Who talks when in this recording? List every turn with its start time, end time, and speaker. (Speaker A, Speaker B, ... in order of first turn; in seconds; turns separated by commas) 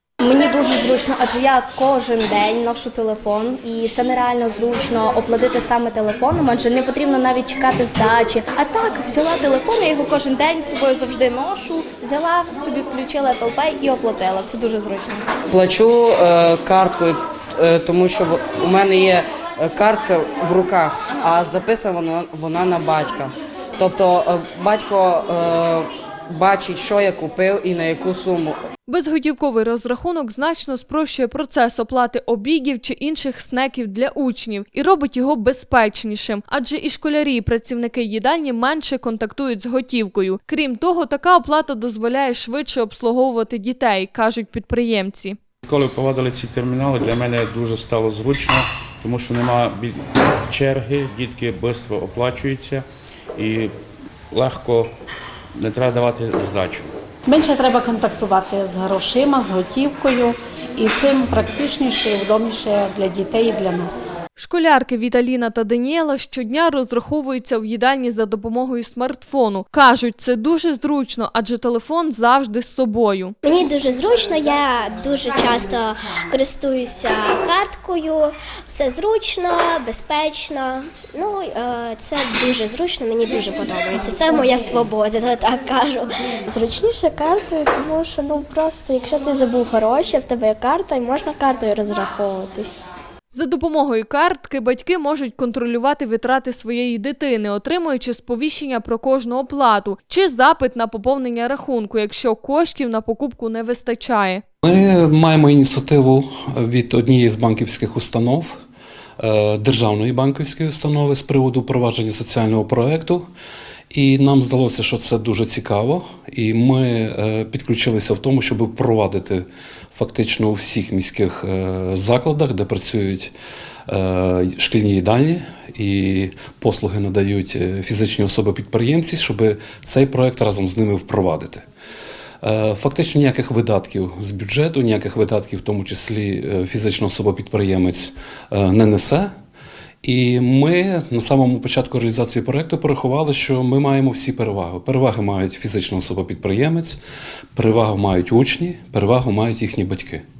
Speaker A: 0.2-15.2, Speaker B: 15.5-28.6, Speaker C: 28.9-45.4, Speaker D: 45.7-52.8, Speaker D: 53.4-53.7, Speaker D: 54.3-54.9, Speaker D: 55.6-56.9, Speaker E: 57.3-64.0, Speaker C: 64.4-73.3, Speaker F: 73.4-86.1, Speaker G: 86.5-92.7, Speaker C: 93.3-104.4, Speaker H: 104.6-108.6, Speaker H: 109.2-113.2, Speaker H: 113.9-123.3, Speaker H: 123.9-131.6, Speaker H: 132.4-139.3, Speaker H: 140.0-147.0, Speaker H: 147.5-150.2